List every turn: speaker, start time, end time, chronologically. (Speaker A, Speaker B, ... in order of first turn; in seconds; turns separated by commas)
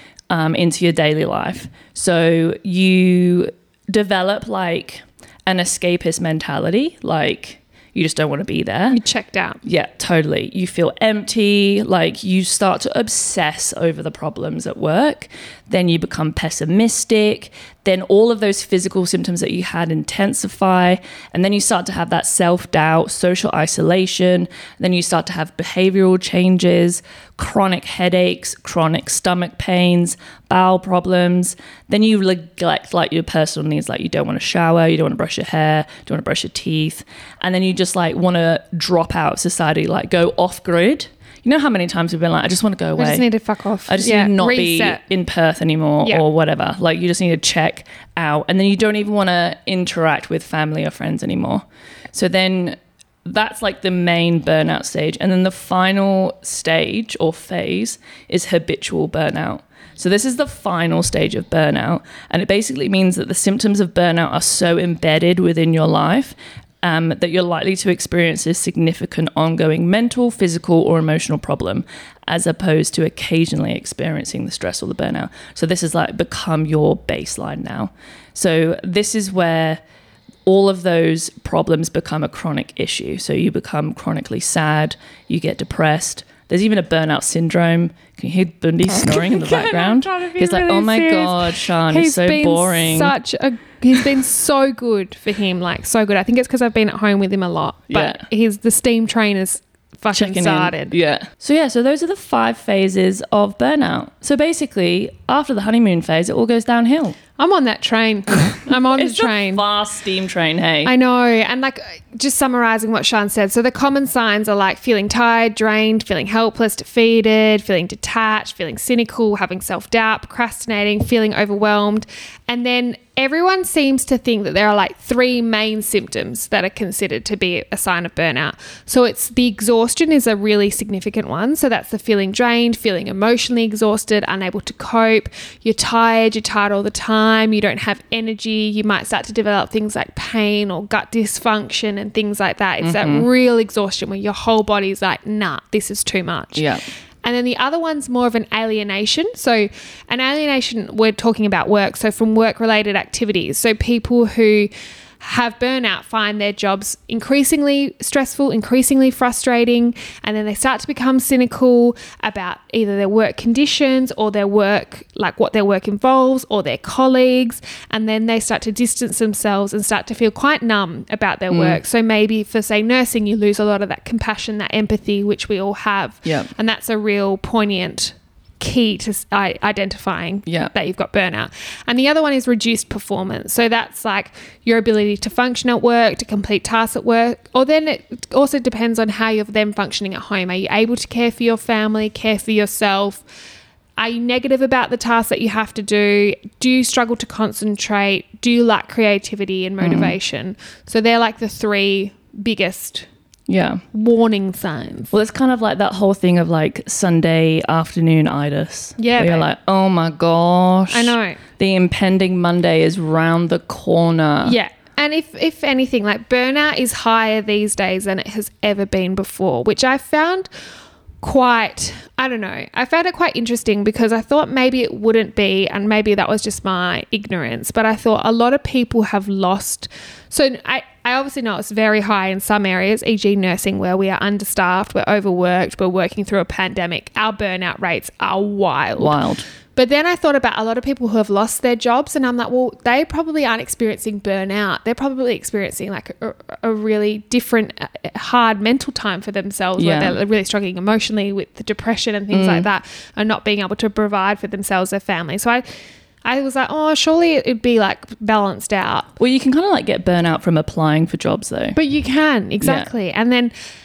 Speaker A: 0.3-9.0, Speaker B: 8.9-9.6, Speaker A: 9.6-43.2, Speaker B: 43.0-45.0, Speaker A: 43.9-79.8, Speaker A: 80.4-93.1, Speaker B: 88.9-100.9, Speaker A: 97.9-98.2, Speaker A: 100.1-107.2, Speaker B: 107.4-109.6, Speaker A: 108.9-110.9, Speaker B: 110.8-146.7, Speaker A: 142.8-143.3, Speaker A: 146.6-146.8, Speaker B: 147.2-193.2, Speaker A: 171.5-171.8, Speaker A: 176.2-176.5, Speaker A: 180.4-180.7, Speaker B: 194.0-203.1, Speaker A: 199.8-200.1, Speaker A: 203.5-203.8, Speaker B: 203.9-205.1, Speaker A: 205.1-214.6, Speaker B: 209.0-209.5, Speaker B: 210.9-211.4, Speaker B: 214.4-220.5, Speaker B: 221.2-239.2, Speaker A: 239.0-239.4, Speaker B: 239.7-255.6, Speaker A: 249.8-250.2, Speaker A: 252.3-252.7, Speaker B: 256.2-259.1, Speaker A: 259.2-261.8, Speaker B: 261.7-263.5, Speaker A: 262.6-262.9